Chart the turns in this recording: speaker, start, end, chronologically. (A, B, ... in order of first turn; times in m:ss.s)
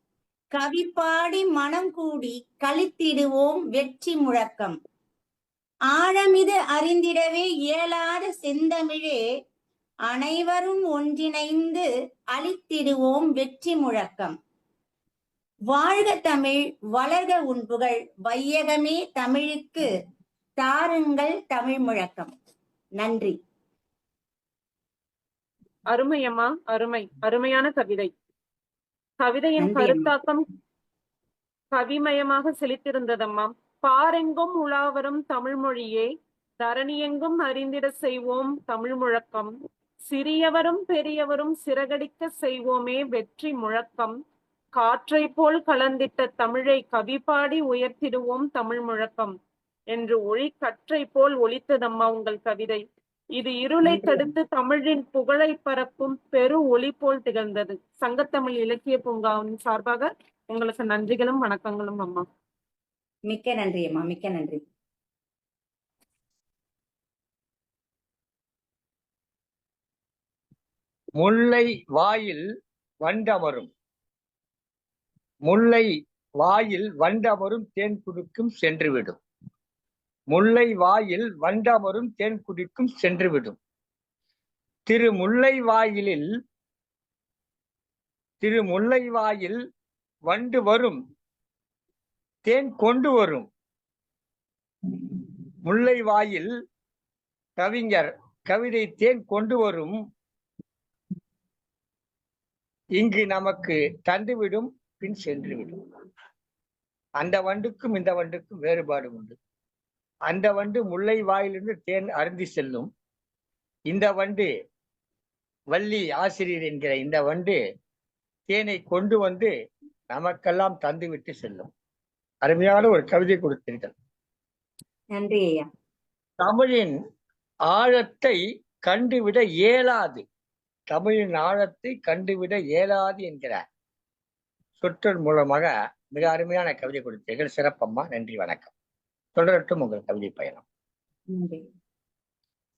0:00.6-0:04.8 A
0:05.9-0:09.2 A
0:10.1-0:14.4 A
0:15.7-0:19.9 A
0:20.6-0:22.3 A
0:23.0-0:23.4 A
0:25.9-0:28.1 B
0:29.2-0:30.4 B
0:29.6-0:30.1 A
0:31.7-0:39.5 B
0:40.1-0:44.2 B
0:44.8-0:49.3 B
0:49.9-0:52.8 B
0:53.4-1:02.2 B
0:53.8-0:54.3 A
1:03.3-1:04.6 A
1:11.2-1:12.5 C
1:13.0-1:13.7 C
1:15.5-1:15.9 C
1:16.4-1:19.2 C
1:20.3-1:23.6 C
1:24.9-1:26.3 C
1:28.4-1:29.6 C
1:30.3-1:31.0 C
1:32.4-1:33.5 C
1:35.6-1:36.5 C
1:37.6-1:40.0 C
1:43.0-1:45.8 C
1:47.2-1:49.4 C
1:50.3-1:52.9 C
1:53.9-1:54.5 C
1:55.7-1:57.6 C
1:58.5-1:59.5 C
2:00.1-2:01.7 C
2:02.4-2:03.9 C
2:05.2-2:05.7 A
2:06.4-2:07.0 C
2:07.7-2:10.2 C
2:10.9-2:13.6 C
2:14.8-2:18.7 C
2:19.4-2:20.6 C
2:21.3-2:21.6 A